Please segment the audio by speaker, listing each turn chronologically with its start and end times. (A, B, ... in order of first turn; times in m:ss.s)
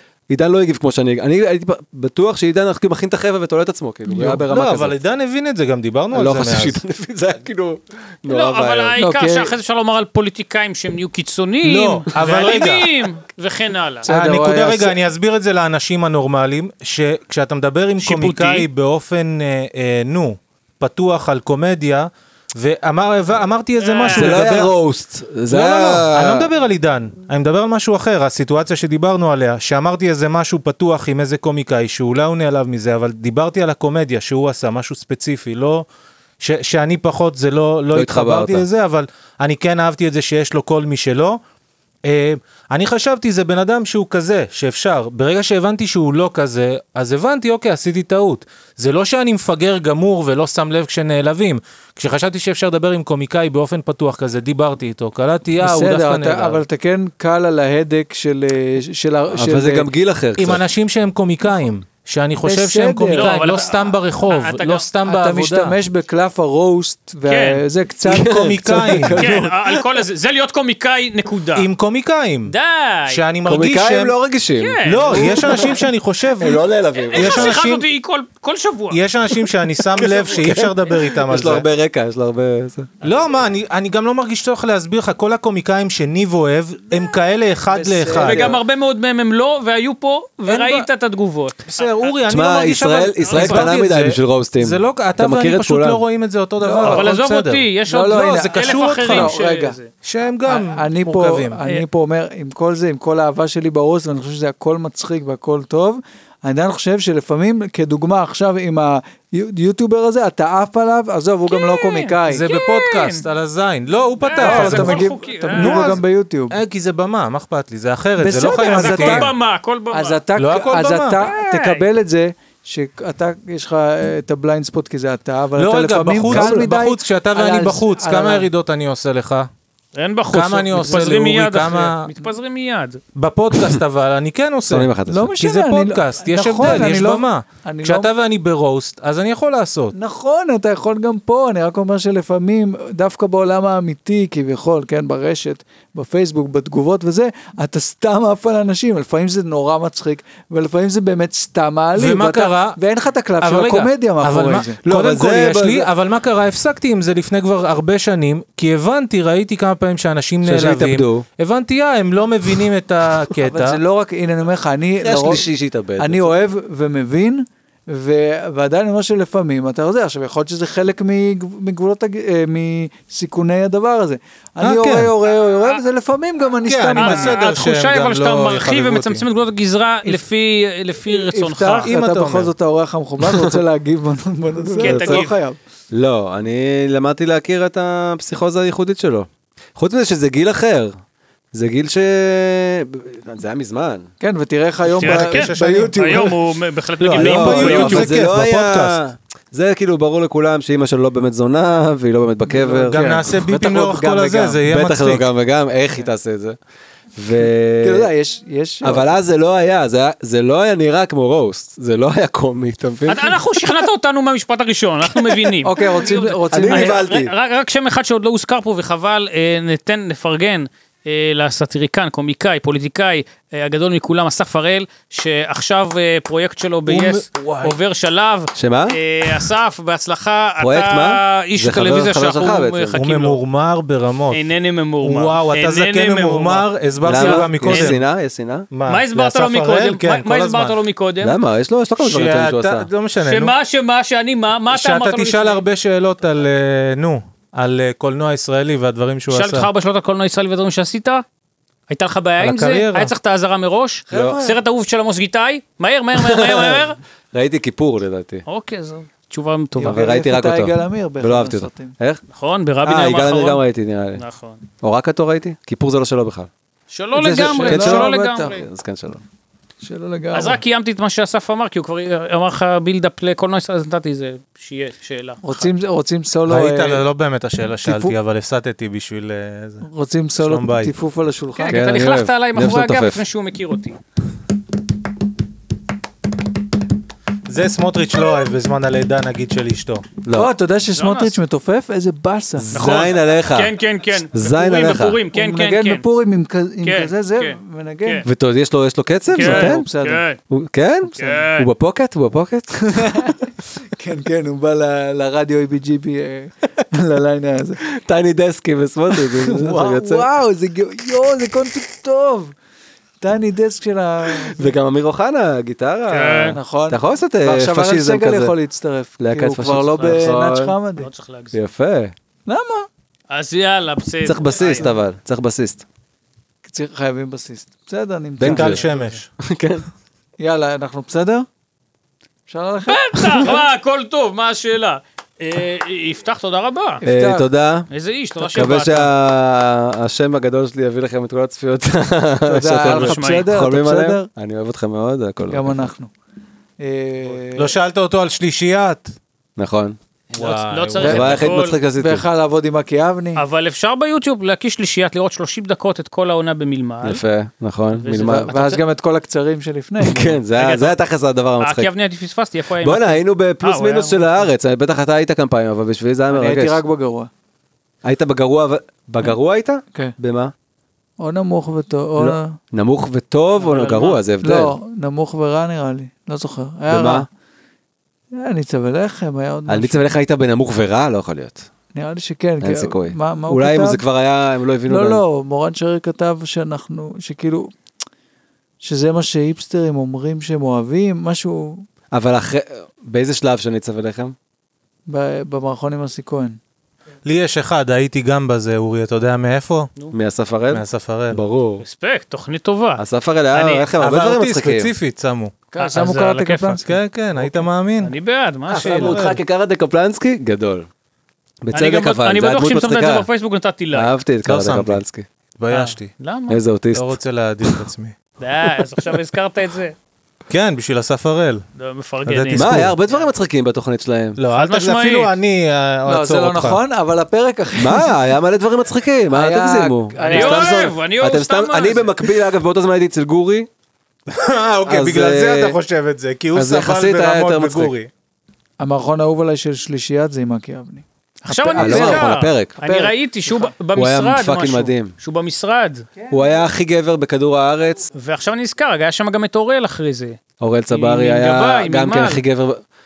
0:00.3-0:04.9 A
0:04.1-0:06.8 B
0:06.1-0:08.9 A
0:08.3-0:14.1 C
0:09.0-0:09.5 D
0:11.6-0:13.1 B
0:14.0-0:15.0 D
0:14.0-0:24.7 B
0:18.0-0:18.7 C
0:23.8-0:24.5 C
0:24.1-0:26.5 A
0:25.5-0:35.8 B
0:36.4-0:41.4 B
0:37.9-0:38.7 A
0:42.0-0:56.6 B
0:55.6-0:59.9 D
0:59.3-1:00.6 A
1:00.4-1:05.8 B
1:02.4-1:03.4 D
1:03.1-1:04.8 C
1:05.0-1:09.5 D
1:07.2-1:07.6 C
1:08.0-1:09.8 A
1:08.2-1:09.2 B
1:09.2-1:11.7 C
1:11.5-1:12.5 B
1:12.5-1:13.2 C
1:13.1-1:14.1 B
1:13.4-1:15.8 A
1:14.6-1:15.7 C
1:14.8-1:16.6 B
1:16.4-1:17.6 A
1:17.0-1:19.0 C
1:17.1-1:17.8 B
1:18.9-1:21.6 B
1:19.9-1:22.9 A
1:23.0-1:28.6 B
1:27.7-1:28.5 D
1:28.1-1:32.2 C
1:30.5-1:30.9 B
1:31.6-1:37.6 B
1:32.3-1:36.0 A
1:33.2-1:33.7 C
1:36.6-1:37.1 D
1:36.8-1:39.9 C
1:37.9-1:39.8 D
1:38.2-1:39.3 B
1:40.0-1:41.6 B
1:40.4-1:52.4 D
1:51.5-1:53.2 C
1:52.2-1:59.3 B
1:54.2-1:56.0 C
1:54.4-1:56.6 D
1:58.2-1:59.3 D
1:58.5-2:00.2 C
1:59.9-2:08.5 D
2:00.4-2:01.2 B
2:01.2-2:01.9 C
2:05.6-2:09.5 B
2:06.2-2:06.7 A
2:09.9-2:13.0 C
2:10.3-2:12.1 B
2:13.1-2:19.9 B
2:14.6-2:15.3 A
2:15.1-2:18.1 D
2:19.9-2:34.8 D
2:32.0-2:32.8 B
2:33.4-2:43.8 B
2:34.8-2:35.9 A
2:40.4-2:41.2 A
2:43.4-2:45.4 D
2:45.0-2:46.3 A
2:46.0-2:57.4 D
2:54.6-2:55.1 B
2:55.6-2:55.8 C
2:56.6-2:59.2 B
2:56.9-3:01.9 C
3:01.0-3:05.6 D
3:01.8-3:02.5 B
3:03.2-3:03.5 A
3:04.8-3:05.3 A
3:04.8-3:05.3 C
3:05.9-3:10.9 A
3:11.5-3:14.1 A
3:14.2-3:16.4 D
3:14.9-3:16.2 B
3:15.0-3:18.1 C
3:17.0-3:19.0 B
3:17.1-3:23.0 A
3:22.4-3:24.6 D
3:22.8-3:25.2 B
3:24.7-3:26.6 A
3:27.2-3:28.1 A
3:27.4-3:29.1 D
3:28.8-3:33.7 A
3:33.0-3:53.4 C
3:35.1-3:37.3 A
3:35.6-3:37.0 D
3:46.8-3:47.8 B
3:48.6-3:49.0 A
3:50.6-3:53.0 A
3:52.9-3:58.0 B
3:54.3-3:58.0 C
3:57.0-3:58.7 A
3:58.7-4:00.8 B
3:58.9-4:01.4 C
4:01.2-4:02.9 A
4:02.0-4:03.5 B
4:03.2-4:05.6 C
4:04.7-4:09.7 B
4:09.3-4:11.2 C
4:11.9-4:17.0 C
4:12.4-4:13.1 B
4:14.1-4:14.6 D
4:14.1-4:14.4 A
4:16.2-4:18.4 A
4:18.5-4:20.0 C
4:19.8-4:22.0 D
4:19.8-4:22.2 A
4:22.3-4:24.6 C
4:22.8-4:24.2 A
4:24.8-4:26.5 A
4:26.9-4:28.6 C
4:27.2-4:29.2 A
4:27.3-4:28.6 D
4:29.8-4:30.6 D
4:30.3-4:35.7 C
4:35.4-4:37.0 D
4:36.5-4:39.8 B
4:37.8-4:38.2 D
4:39.8-4:41.8 D
4:40.4-4:40.9 B
4:41.6-4:44.0 C
4:41.7-4:43.2 A
4:47.5-4:50.0 B
4:50.2-4:50.5 A
4:50.3-4:52.9 D
4:51.0-4:51.4 C
4:52.6-4:53.7 A
4:52.7-4:56.0 C
4:54.3-4:55.2 A
4:55.3-4:58.2 D
4:56.8-4:58.2 C
4:58.2-4:59.8 A
4:59.3-5:00.2 D
4:59.3-5:00.4 C
5:00.5-5:02.8 A
5:01.1-5:01.7 C
5:02.8-5:07.8 D
5:07.9-5:10.3 A
5:09.1-5:12.5 D
5:13.2-5:14.8 D
5:14.4-5:18.6 A
5:16.1-5:16.6 C
5:16.5-5:21.1 D
5:19.2-5:20.8 A
5:20.0-5:20.4 C
5:21.0-5:21.6 C
5:21.5-5:22.1 A
5:22.4-5:22.9 D
5:23.3-5:24.9 C
5:24.2-5:25.8 A
5:26.6-5:28.9 D
5:28.4-5:28.9 A
5:28.4-5:29.3 B
5:29.4-5:29.9 A
5:30.4-5:31.5 D
5:32.5-5:33.6 D
5:32.9-5:37.0 C
5:37.0-5:37.5 D
5:37.0-5:37.9 A
5:37.9-5:39.1 C
5:38.4-5:45.9 A
5:42.4-5:44.3 D
5:42.8-5:43.5 C
5:45.5-5:46.1 D
5:46.8-5:47.8 D
5:47.6-5:49.1 B
5:49.6-5:50.0 A
5:50.3-5:51.3 B
5:50.4-5:51.8 C
5:51.0-5:53.4 D
5:51.0-5:52.2 A
5:53.4-5:57.2 C
5:57.0-5:58.5 A
5:58.0-5:58.8 C
5:58.1-6:00.4 D
6:00.0-6:01.9 A
6:00.5-6:01.0 C
6:01.6-6:04.5 C
6:02.8-6:06.8 A
6:06.3-6:07.3 D
6:08.0-6:10.5 A
6:11.2-6:12.6 D
6:12.2-6:14.8 A
6:13.6-6:14.2 C
6:14.4-6:17.2 D
6:16.9-6:17.2 A
6:18.3-6:20.0 D
6:19.7-6:21.7 A
6:21.9-6:24.0 D
6:22.6-6:25.2 A
6:24.9-6:27.7 D
6:28.8-6:31.8 D
6:32.1-6:34.3 A
6:35.1-6:36.6 D
6:37.2-6:39.9 B
6:40.1-6:41.8 A
6:40.7-6:41.4 B
6:41.8-6:43.9 C
6:43.0-6:44.9 A
6:44.0-6:45.5 B
6:45.7-6:46.9 D
6:45.8-6:46.8 C
6:46.8-6:48.1 B
6:48.0-6:49.2 C
6:48.7-6:50.9 A
6:48.8-6:49.4 B
6:51.6-6:53.2 A
6:51.7-6:54.1 C
6:53.9-6:55.2 A
6:54.4-6:55.0 B
6:55.6-6:56.1 B
6:55.7-6:56.6 C
6:56.5-6:57.8 A
6:56.9-6:58.2 B
6:58.4-6:59.9 C
7:00.5-7:01.6 B
7:01.8-7:03.2 C
7:02.2-7:03.0 B
7:02.5-7:04.4 A
7:04.4-7:06.8 B
7:04.5-7:05.3 C
7:06.0-7:08.1 D
7:07.8-7:13.7 A
7:09.3-7:10.8 D
7:10.3-7:12.4 C
7:14.3-7:18.1 B
7:14.9-7:15.8 A
7:16.5-7:17.9 A
7:18.8-7:23.7 D
7:21.5-7:26.1 C
7:21.8-7:22.8 A
7:23.9-7:25.1 A
7:26.3-7:28.1 A
7:28.1-7:30.4 C
7:30.6-7:32.8 A
7:30.9-7:32.4 C